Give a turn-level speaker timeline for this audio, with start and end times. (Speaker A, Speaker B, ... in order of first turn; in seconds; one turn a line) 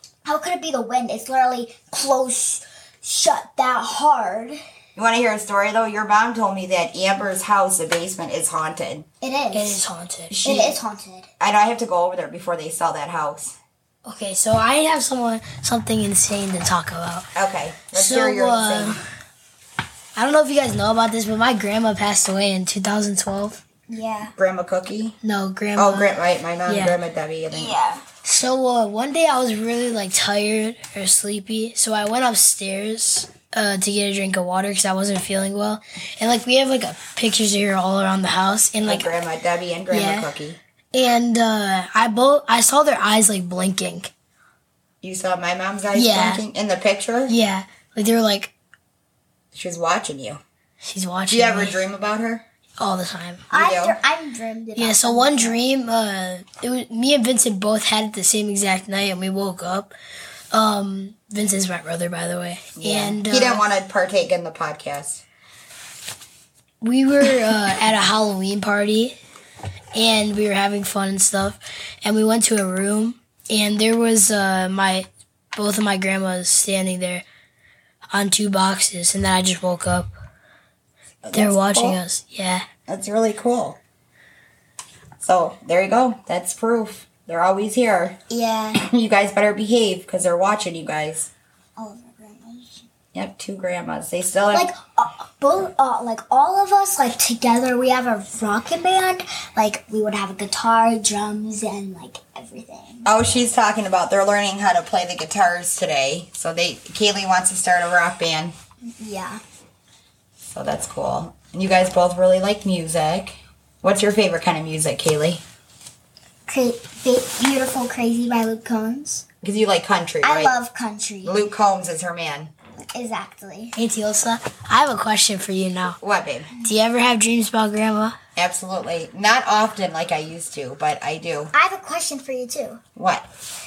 Speaker A: 0.2-4.6
Speaker B: 5.0-9.1
Speaker A: 9.2-9.8
Speaker C: 9.5-10.4
Speaker B: 10.3-10.8
Speaker A: 10.4-11.3
Speaker B: 11.4-13.6
Speaker C: 14.0-17.3
Speaker B: 17.4-19.0
Speaker C: 17.9-19.0
Speaker C: 20.1-23.6
Speaker A: 23.9-24.3
Speaker B: 24.4-25.2
Speaker C: 25.2-27.0
Speaker B: 25.8-27.8
Speaker A: 27.5-28.0
Speaker C: 28.2-39.1
Speaker B: 38.8-40.6
Speaker C: 39.9-40.3
Speaker C: 40.9-44.1
Speaker B: 45.0-47.3
Speaker C: 45.9-46.4
Speaker C: 47.3-48.5
Speaker B: 49.5-50.4
Speaker C: 50.8-51.8
Speaker B: 51.3-52.4
Speaker C: 52.8-53.5
Speaker A: 53.5-55.6
Speaker B: 53.5-54.0
Speaker C: 54.8-59.9
Speaker C: 60.5-63.6
Speaker B: 62.8-65.2
Speaker C: 66.8-69.2
Speaker C: 69.9-77.2
Speaker C: 78.1-80.1
Speaker B: 81.2-82.0
Speaker C: 81.3-82.7
Speaker B: 82.9-83.8
Speaker B: 85.2-88.2
Speaker A: 88.3-88.8
Speaker B: 88.7-91.3
Speaker A: 91.8-92.9
Speaker B: 93.1-94.7
Speaker A: 94.5-103.1
Speaker B: 103.0-108.5
Speaker A: 109.0-109.4
Speaker B: 110.4-115.4
Speaker A: 116.5-119.2
Speaker B: 119.4-120.5
Speaker A: 120.2-121.4
Speaker B: 121.2-122.5
Speaker A: 122.9-123.7
Speaker C: 123.8-126.0
Speaker B: 126.0-126.5
Speaker C: 126.6-128.2
Speaker B: 128.3-131.5
Speaker A: 131.5-132.8
Speaker B: 132.9-133.2